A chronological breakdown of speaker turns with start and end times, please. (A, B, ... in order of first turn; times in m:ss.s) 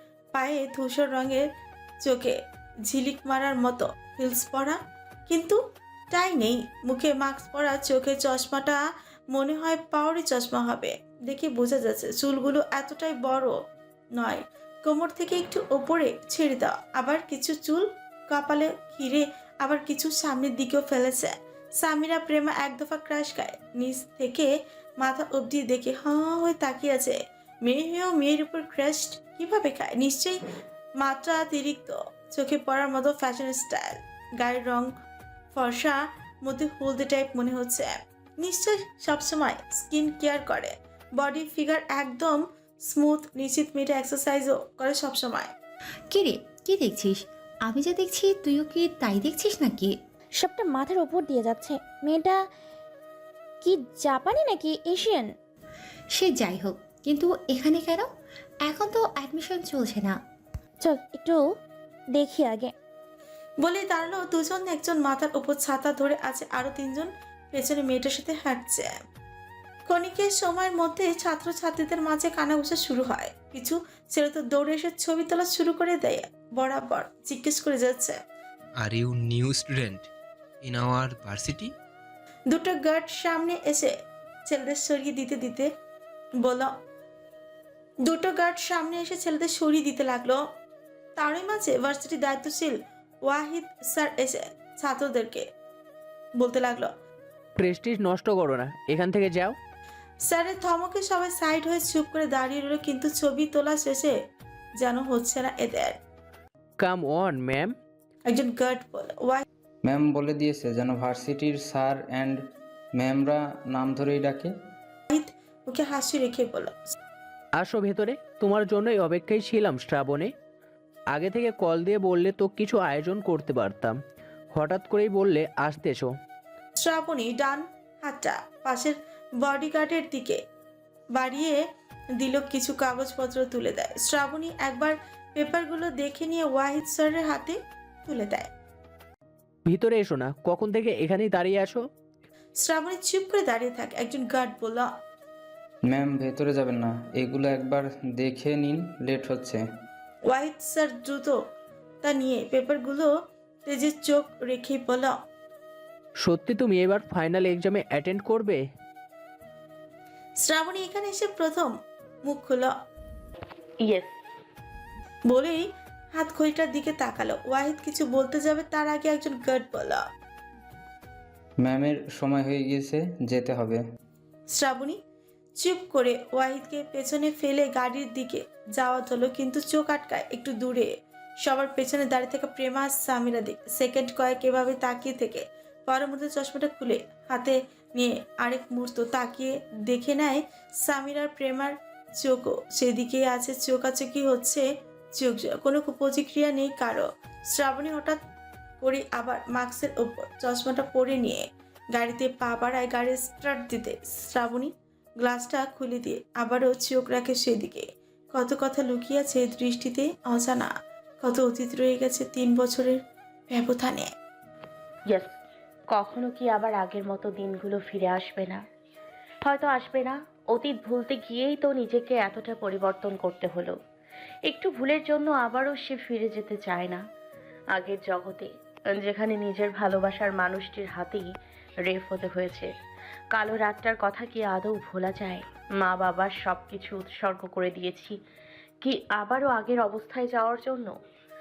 0:00.3-0:01.4 A
0:02.0-0:05.6 A
0:06.1-0:13.6 A
0:14.2-0:30.4 A
0:31.0-0:34.9 A
0:35.5-0:45.5 A
0:46.1-0:50.0 B
0:50.4-0:52.4 C
0:53.6-0:55.3 C
0:56.2-0:58.1 B
0:58.6-1:00.2 B
1:00.8-1:01.4 C
1:02.1-1:02.7 C
1:03.6-1:08.9 A
1:09.9-1:18.2 A
1:18.8-1:20.0 D
1:20.6-1:21.7 D
1:22.5-1:23.9 A
1:24.5-1:25.7 A
1:26.4-1:26.7 A
1:28.0-1:30.4 A
1:31.2-1:35.4 A
1:36.4-1:36.9 A
1:37.6-1:39.5 E
1:40.2-1:44.2 A
1:44.8-1:46.0 A
1:46.8-1:47.8 E
1:48.3-1:49.4 A
1:49.8-1:52.4 F
1:52.9-1:54.5 F
1:55.1-1:56.9 A
1:57.6-2:00.3 E
2:01.1-2:04.0 E
2:04.5-2:06.1 E
2:06.8-2:10.4 A
2:11.1-2:11.6 A
2:12.2-2:18.5 A
2:19.7-2:21.8 E
2:22.6-2:24.9 A
2:25.8-2:29.6 F
2:30.3-2:31.4 A
2:32.0-2:33.1 A
2:33.7-2:35.2 A
2:36.2-2:38.6 E
2:40.4-2:41.7 A
2:42.2-2:42.7 A
2:43.8-2:44.2 G
2:45.3-2:50.0 A
2:51.6-2:53.8 F
2:54.5-2:55.0 A
2:55.6-3:18.2 A
3:18.8-3:33.0 A
3:33.5-3:34.1 A
3:35.9-3:38.6 G
3:39.4-3:43.8 G
3:44.5-3:47.0 G
3:47.7-3:51.3 G
3:51.8-3:52.7 G
3:53.3-3:58.2 G
3:58.8-4:01.0 G